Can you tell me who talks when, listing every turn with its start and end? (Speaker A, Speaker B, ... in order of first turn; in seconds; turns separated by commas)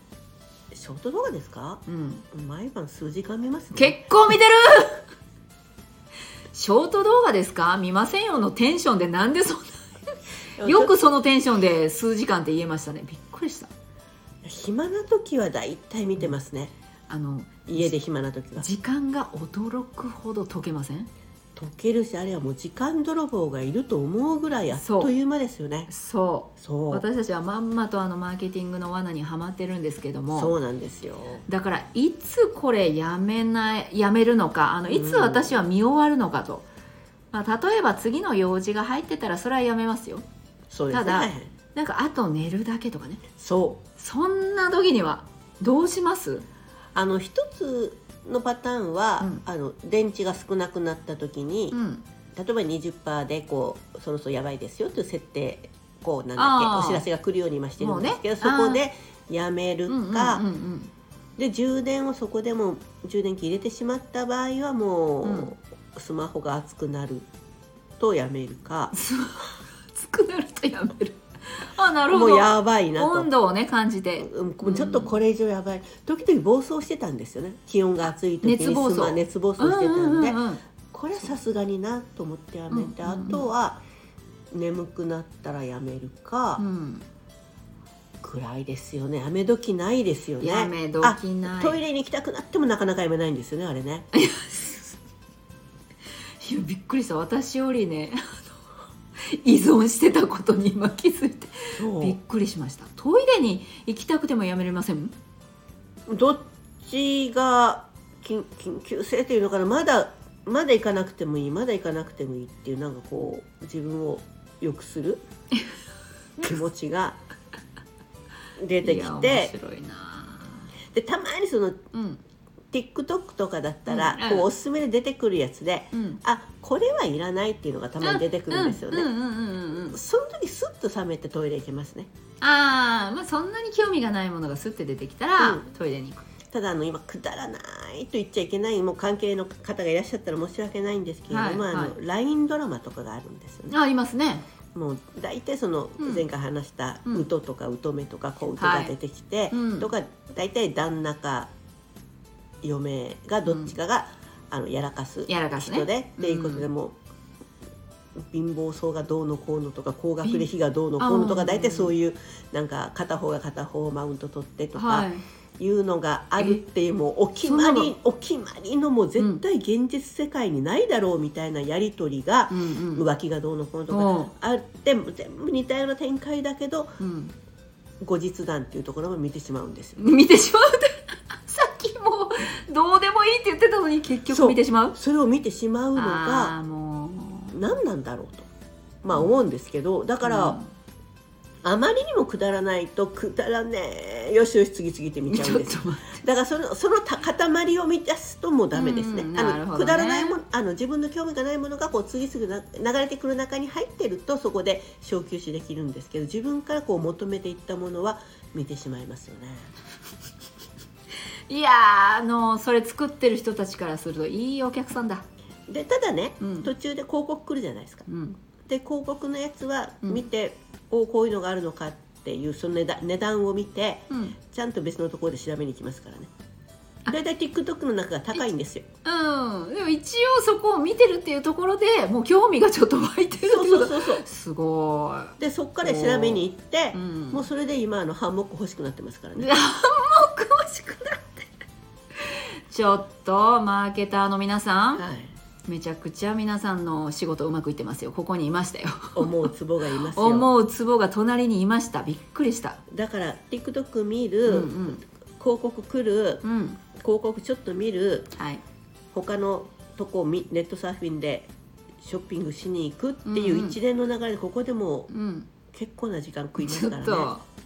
Speaker A: 0.7-4.3, Speaker B: 1.9-2.2, Speaker B: 3.8-5.0, Speaker B: 6.5-13.7, Speaker A: 10.6-11.0, Speaker A: 14.4-16.7, Speaker B: 17.1-17.9, Speaker A: 17.7-18.7, Speaker B: 18.6-21.1, Speaker A: 21.6-25.9, Speaker B: 24.8-25.1, Speaker B: 25.9-30.6, Speaker A: 26.6-27.1, Speaker A: 30.3-31.4, Speaker B: 31.5-36.7, Speaker A: 34.9-35.6, Speaker B: 37.3-40.3, Speaker A: 40.7-41.5, Speaker B: 40.9-43.2, Speaker A: 43.4-43.8, Speaker B: 44.0-46.5, Speaker A: 47.0-51.8, Speaker B: 51.7-52.0, Speaker A: 52.4-60.5, Speaker B: 56.4-57.0, Speaker B: 57.8-58.8, Speaker B: 59.9-60.9, Speaker A: 61.4-67.3, Speaker B: 65.2-65.5, Speaker A: 68.0-68.9, Speaker B: 68.9-75.2, Speaker A: 72.1-73.3, Speaker A: 74.2-83.8, Speaker B: 78.4-80.6, Speaker B: 82.7-83.5, Speaker A: 84.5-86.6, Speaker B: 86.6-87.1, Speaker A: 88.2-94.1, Speaker B: 90.4-91.8, Speaker B: 94.1-95.0, Speaker B: 96.4-98.6, Speaker B: 99.2-105.1, Speaker A: 101.7-102.2, Speaker A: 106.1-115.2, Speaker A: 116.4-117.2, Speaker A: 118.6-119.5, Speaker B: 118.8-120.7, Speaker A: 120.9-121.8, Speaker B: 121.9-122.2, Speaker A: 122.7-129.1, Speaker B: 123.9-124.5, Speaker B: 125.9-126.2, Speaker B: 128.0-130.0, Speaker A: 129.8-132.1, Speaker B: 132.4-136.3, Speaker A: 135.4-135.7, Speaker A: 136.5-143.8, Speaker B: 141.3-141.9, Speaker B: 143.7-144.4, Speaker A: 144.7-151.5, Speaker B: 146.0-146.2, Speaker B: 148.6-148.9, Speaker B: 149.5-149.9, Speaker A: 152.6-157.0, Speaker B: 153.5-153.8, Speaker B: 155.3-156.7, Speaker A: 158.2-177.0, Speaker B: 161.0-161.9, Speaker B: 164.8-165.2, Speaker B: 167.4-167.9, Speaker B: 172.5-173.1, Speaker B: 173.9-174.3, Speaker B: 177.0-177.3, Speaker A: 178.0-180.0, Speaker B: 180.0-185.0, Speaker A: 184.3-186.5, Speaker B: 186.0-187.6, Speaker A: 187.5-188.5, Speaker A: 189.0-190.6, Speaker B: 190.2-190.7, Speaker A: 191.6-209.7, Speaker B: 195.3-196.2, Speaker B: 198.7-200.4, Speaker B: 211.5-215.2, Speaker A: 215.7-218.1, Speaker B: 216.4-216.7, Speaker B: 218.1-218.4, Speaker A: 218.7-226.3, Speaker B: 224.1-224.4, Speaker A: 227.1-228.9, Speaker B: 229.1-237.5, Speaker A: 233.4-234.2, Speaker A: 235.4-239.5, Speaker B: 239.4-241.5, Speaker B: 242.3-245.0, Speaker A: 245.0-245.3, Speaker B: 245.7-249.5, Speaker A: 249.2-250.5, Speaker B: 250.1-252.8, Speaker A: 252.9-256.4, Speaker B: 254.5-255.0, Speaker B: 256.4-256.8, Speaker A: 257.0-258.3, Speaker B: 258.3-258.6, Speaker A: 259.1-265.1, Speaker B: 263.3-263.8, Speaker B: 265.1-265.5, Speaker A: 265.7-267.3, Speaker B: 266.6-267.4